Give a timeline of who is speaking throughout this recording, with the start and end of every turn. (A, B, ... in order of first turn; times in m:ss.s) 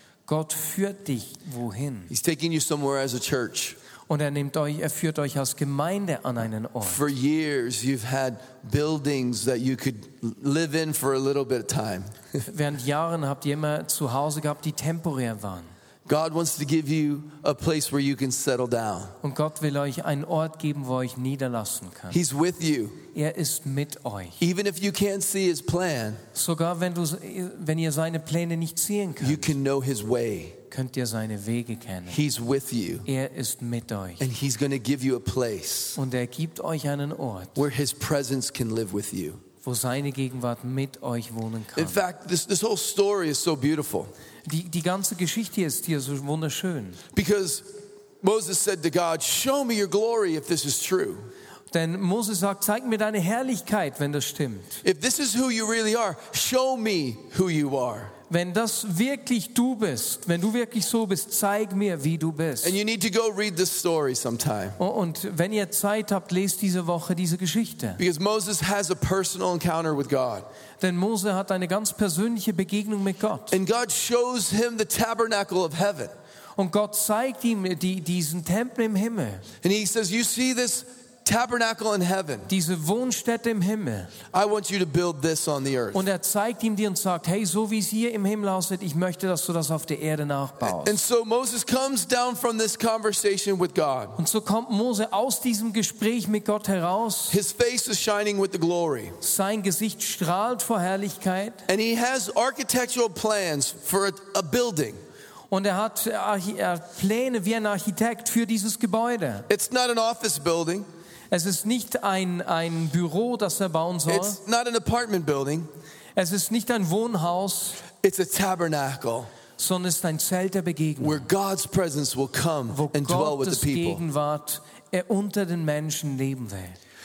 0:00.3-0:02.1 A
0:02.1-0:03.8 B
0:04.1-0:07.0 A
0:06.8-0:12.2 B
0:12.5-0:15.7 A
0:16.1-0:19.2 B
0:19.2-0:22.2 A
0:22.1-0:23.0 B
0:23.1-0:24.4 A
0:24.4-0:26.2 B
0:26.3-0:29.6 A
0:29.2-0:30.6 B
0:30.7-0:32.2 A
0:32.1-0:33.1 B
0:33.1-0:34.2 A
0:34.2-0:36.0 B
0:36.0-0:37.6 A
0:37.6-0:39.4 B
0:39.6-0:42.0 A
0:41.8-0:44.1 B
0:44.5-0:47.0 A
0:47.1-0:47.7 B
0:48.2-0:51.3 B
0:51.7-0:54.8 A
0:54.8-0:58.1 B
0:58.3-1:02.8 A
1:02.6-1:04.8 B
1:04.8-1:08.0 A
1:08.0-1:10.5 B
1:10.8-1:13.6 A
1:13.5-1:16.1 B
1:16.6-1:19.5 A
1:19.6-1:22.5 B
1:22.5-1:24.1 A
1:24.3-1:26.1 B
1:25.9-1:31.0 A
1:30.6-1:34.2 B
1:34.2-1:37.4 A
1:37.3-1:39.2 B
1:39.2-1:41.6 A
1:41.7-1:45.0 B
1:45.5-1:49.5 A
1:49.5-1:50.9 B
1:51.3-1:54.4 A
1:54.1-1:55.7 B
1:56.2-1:57.8 A
1:57.9-1:59.3 B
1:59.6-2:01.3 A
2:01.0-2:04.0 B
2:02.7-2:06.8 A